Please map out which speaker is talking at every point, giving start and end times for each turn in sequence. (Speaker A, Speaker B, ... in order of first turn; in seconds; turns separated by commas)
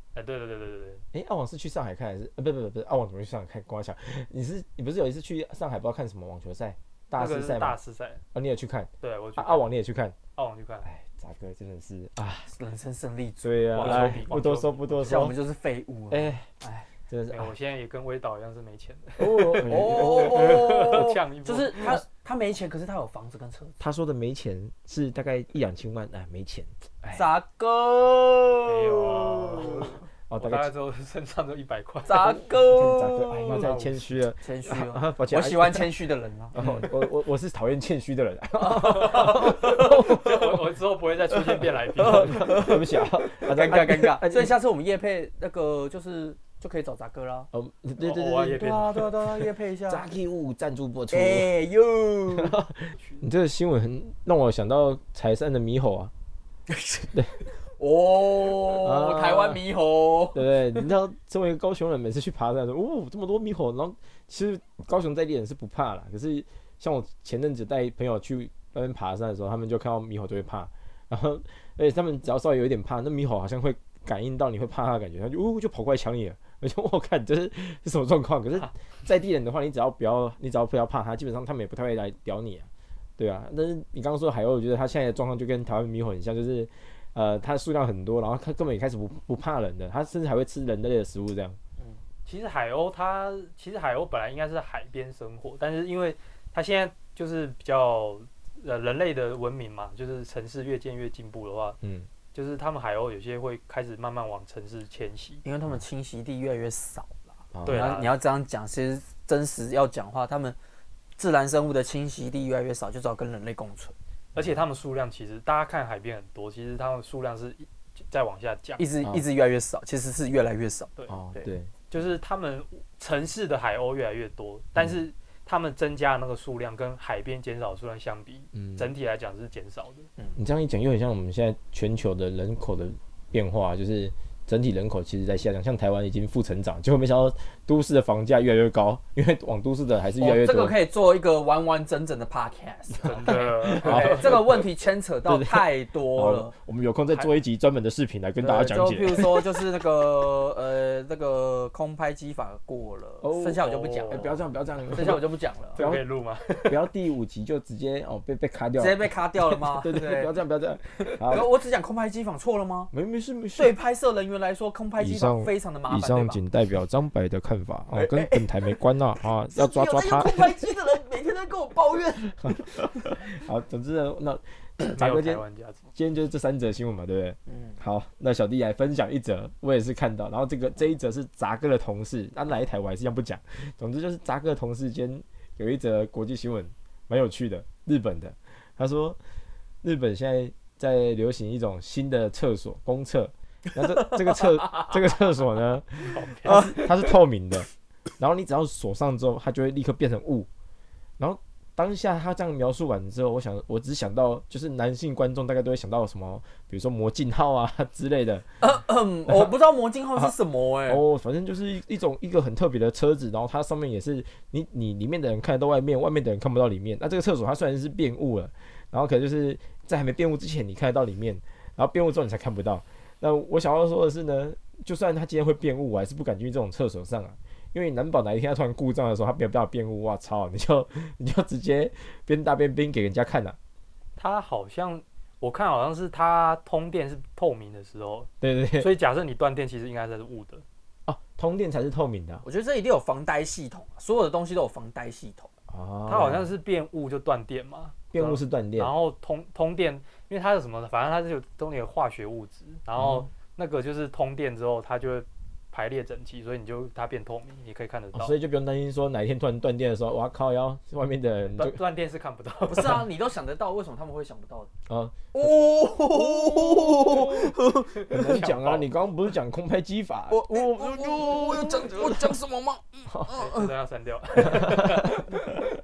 Speaker A: 0.1-1.0, Speaker B: 1.1-7.8, Speaker A: 7.2-8.2, Speaker B: 8.3-10.2, Speaker A: 9.0-9.7, Speaker A: 10.4-10.9, Speaker B: 10.8-12.5, Speaker C: 12.5-14.2, Speaker B: 13.4-15.3, Speaker A: 13.7-15.3, Speaker C: 15.0-16.9, Speaker B: 16.1-16.5, Speaker B: 17.1-17.5, Speaker A: 17.3-22.0, Speaker B: 19.2-21.1, Speaker C: 19.6-23.8, Speaker B: 23.8-27.3, Speaker C: 27.1-30.0, Speaker A: 28.7-32.4, Speaker B: 30.3-30.7, Speaker C: 32.1-33.6, Speaker B: 32.7-36.0, Speaker A: 33.4-34.2, Speaker C: 34.4-36.6, Speaker B: 36.5-40.5, Speaker A: 36.6-36.9, Speaker C: 38.6-40.4, Speaker A: 39.0-42.5, Speaker B: 42.0-44.5, Speaker C: 42.0-47.5, Speaker B: 47.5-48.7, Speaker A: 48.0-49.1, Speaker C: 48.5-50.1, Speaker B: 49.9-51.5, Speaker C: 51.1-52.6, Speaker B: 52.4-56.1, Speaker A: 53.0-53.2, Speaker C: 56.7-57.1, Speaker C: 57.6-60.8, Speaker B: 58.7-59.6, Speaker B: 60.3-91.6, Speaker A: 92.2-101.8, Speaker B: 101.8-102.1, Speaker A: 102.3-105.4, Speaker C: 105.4-110.6, Speaker B: 107.5-107.9, Speaker A: 107.7-108.1, Speaker C: 111.2-114.0, Speaker A: 114.3-118.9, Speaker C: 118.8-121.5, Speaker B: 121.1-121.7, Speaker A: 121.9-130.1, Speaker B: 128.6-128.9, Speaker B: 130.4-140.8, Speaker C: 140.2-146.5, Speaker A: 143.0-144.4, Speaker B: 143.3-144.6, Speaker B: 145.3-149.5, Speaker C: 148.4-154.3, Speaker B: 153.2-155.2, Speaker A: 153.6-154.4, Speaker C: 154.9-155.8, Speaker A: 155.8-156.8, Speaker B: 155.8-156.0, Speaker B: 156.7-161.5, Speaker C: 158.8-160.3, Speaker C: 160.9-162.9, Speaker B: 162.9-163.8, Speaker C: 163.6-166.4, Speaker B: 165.0-170.6, Speaker C: 167.9-168.7, Speaker C: 169.4-172.8, Speaker B: 172.4-175.4, Speaker A: 174.8-175.8, Speaker B: 176.0-189.2, Speaker C: 177.5-177.8, Speaker B: 189.8-197.7, Speaker C: 194.0-194.9, Speaker A: 196.1-196.6, Speaker C: 196.4-197.1, Speaker B: 198.2-200.5, Speaker B: 201.2-208.5, Speaker C: 208.6-211.0, Speaker B: 209.3-209.6, Speaker B: 210.9-233.6, Speaker A: 234.2-240.6, Speaker B: 238.4-238.9, Speaker B: 241.1-242.4, Speaker C: 242.4-245.5, Speaker B: 245.7-246.5, Speaker A: 246.1-258.3, Speaker B: 248.1-248.9, Speaker B: 253.0-253.2, Speaker B: 258.1-261.8, Speaker A: 261.6-263.0, Speaker C: 262.7-264.7, Speaker B: 264.9-265.5, Speaker C: 265.3-268.2, Speaker B: 266.1-267.6, Speaker A: 268.0-268.9, Speaker B: 268.1-272.3, Speaker C: 270.3-273.7, Speaker A: 273.3-275.2, Speaker B: 274.4-275.3